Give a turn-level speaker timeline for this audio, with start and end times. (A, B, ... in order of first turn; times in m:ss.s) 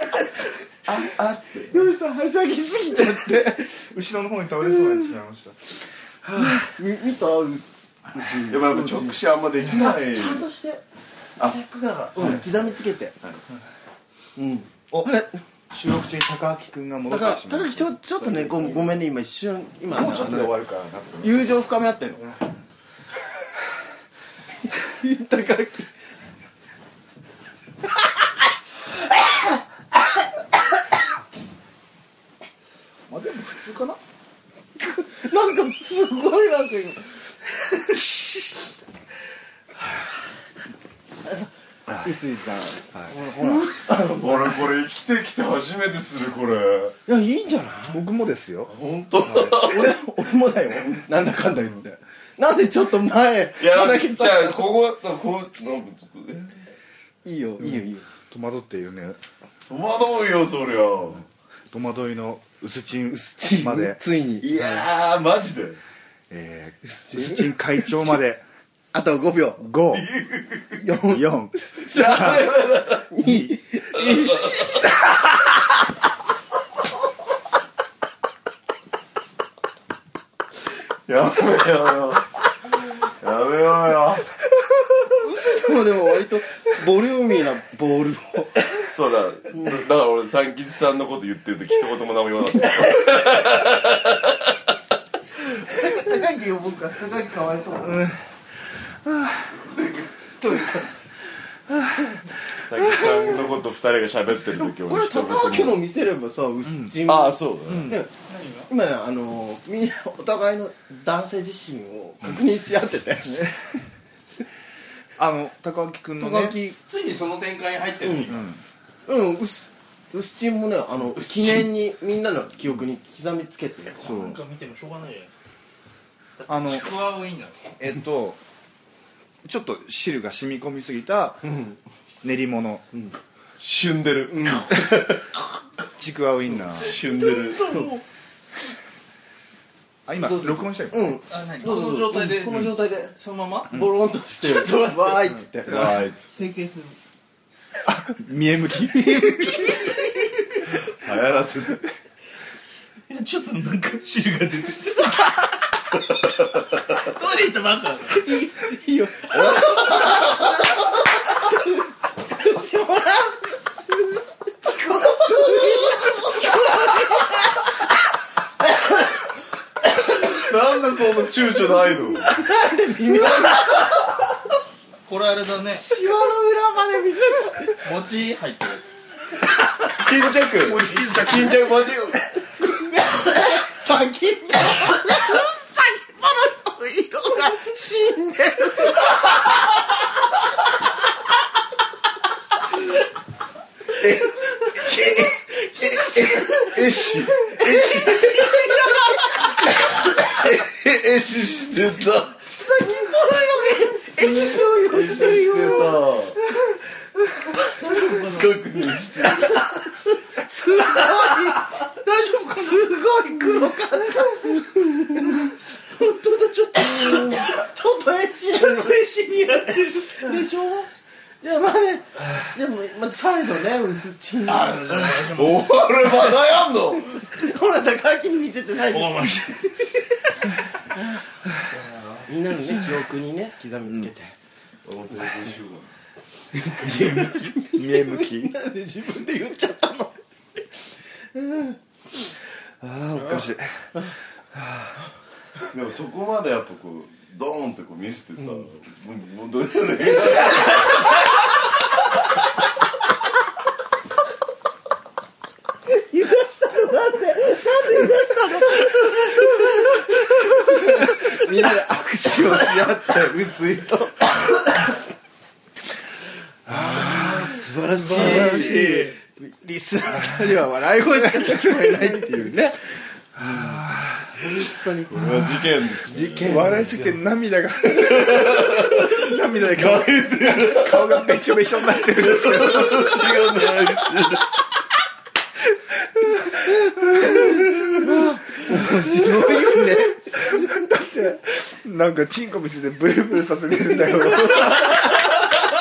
0:00.8-0:01.8 A
0:01.7-0:03.7 B
0:03.3-0:06.7 C
0:06.3-0:10.8 B
0:08.5-0:10.5 A
0:11.4-0:13.2 B
0:14.4-0:15.4 B
0:15.7-0:19.0 C
0:17.1-0:20.6 B
0:19.9-0:21.7 C
0:21.2-0:22.4 B
0:24.8-0:25.9 B
0:33.1-0:34.0 C
0:34.8-0:37.1 B
0:41.2-0:41.5 B
0:42.0-0:44.3 B
0:43.7-0:47.0 A
0:47.0-0:48.0 B
0:47.9-0:48.7 C
0:48.7-0:49.9 A
0:49.2-0:49.6 C
0:49.4-0:54.6 B
0:53.6-0:56.6 A
0:57.2-0:58.1 B
0:58.3-0:59.2 C
0:59.7-1:01.2 A
1:01.7-1:04.0 C
1:03.1-1:04.8 B
1:04.4-1:05.8 A
1:06.3-1:08.4 C
1:06.9-1:08.2 B
1:08.9-1:09.7 B
1:09.6-1:10.1 C
1:09.9-1:10.8 A
1:10.8-1:12.4 B
1:11.0-1:12.5 C
1:11.8-1:13.1 A
1:13.1-1:15.2 B
1:13.2-1:13.5 C
1:13.9-1:14.6 A
1:21.0-1:22.3 A
1:23.0-1:24.3 A
1:25.2-1:28.8 B
1:28.7-1:34.5 A
1:35.4-1:38.1 B
1:37.8-1:38.2 C
1:39.0-1:39.5 C
1:39.8-1:40.9 B
1:42.6-1:45.8 A
1:44.6-1:48.1 B
1:46.6-1:47.0 C
1:47.0-1:48.0 A
1:47.6-1:48.0 C
1:48.2-1:48.7 D
1:48.7-1:53.5 B
1:53.3-1:53.8 C
1:55.2-1:56.6 C
1:56.2-1:56.8 B
1:56.7-1:58.5 D
1:58.0-1:58.4 B
1:58.3-1:58.6 C
1:59.0-2:04.4 B
2:04.0-2:05.3 D
2:06.4-2:07.6 D
2:06.5-2:06.9 C
2:07.8-2:08.4 C
2:09.4-2:11.6 C
2:12.2-2:12.9 C
2:13.6-2:15.3 A
2:14.3-2:14.7 B
2:16.0-2:17.0 C
2:16.7-2:17.8 A
2:17.0-2:18.0 D
2:20.0-2:21.2 C
2:20.2-2:20.6 D
2:20.9-2:23.2 B
2:21.3-2:23.7 D
2:23.7-2:26.0 B
2:24.4-2:25.4 D
2:25.6-2:26.3 A
2:26.3-2:27.0 D
2:27.8-2:29.8 C
2:29.0-2:30.6 B
2:30.8-2:31.8 A
2:33.1-2:35.3 D
2:36.8-2:38.3 D
2:38.1-2:44.0 B
2:39.4-2:40.3 A
2:44.6-2:47.6 B
2:49.9-2:52.3 A
2:52.2-2:53.9 B
2:55.0-2:55.8 D
2:55.7-2:57.9 B
2:57.8-2:58.9 D
3:00.0-3:02.3 A
3:00.4-3:01.5 C
3:00.5-3:01.7 D
3:02.6-3:09.3 B
3:14.0-3:20.5 B
3:16.2-3:18.6 A
3:19.9-3:22.4 A
3:22.6-3:26.2 B
3:24.2-3:26.4 A
3:27.5-3:31.8 B
3:27.8-3:30.0 A
3:32.0-3:33.7 D
3:32.6-3:39.0 B
3:38.5-3:40.4 D
3:40.0-3:40.9 B
3:41.4-3:45.1 B
3:44.4-3:45.8 D
3:45.1-3:47.3 A
3:47.0-3:49.8 B
3:48.9-3:49.9 D
3:52.2-3:54.3 B
3:54.8-3:56.0 A
3:56.5-4:00.2 B
3:56.8-3:58.6 C
4:01.3-4:01.8 B
4:02.8-4:04.0 C
4:03.2-4:03.4 B
4:04.5-4:04.9 C
4:05.7-4:11.1 A
4:15.9-4:24.4 B
4:26.6-4:33.8 B
4:26.7-4:28.9 C
4:28.1-4:29.2 D
4:30.2-4:30.5 C
4:31.4-4:32.0 C
4:33.4-4:34.6 C
4:34.5-4:35.3 B
4:35.1-4:36.9 A
4:36.0-4:37.2 B
4:36.4-4:43.4 C
4:37.9-4:44.5 A
4:46.2-4:49.8 C
4:47.1-4:50.8 B
4:50.4-4:55.3 C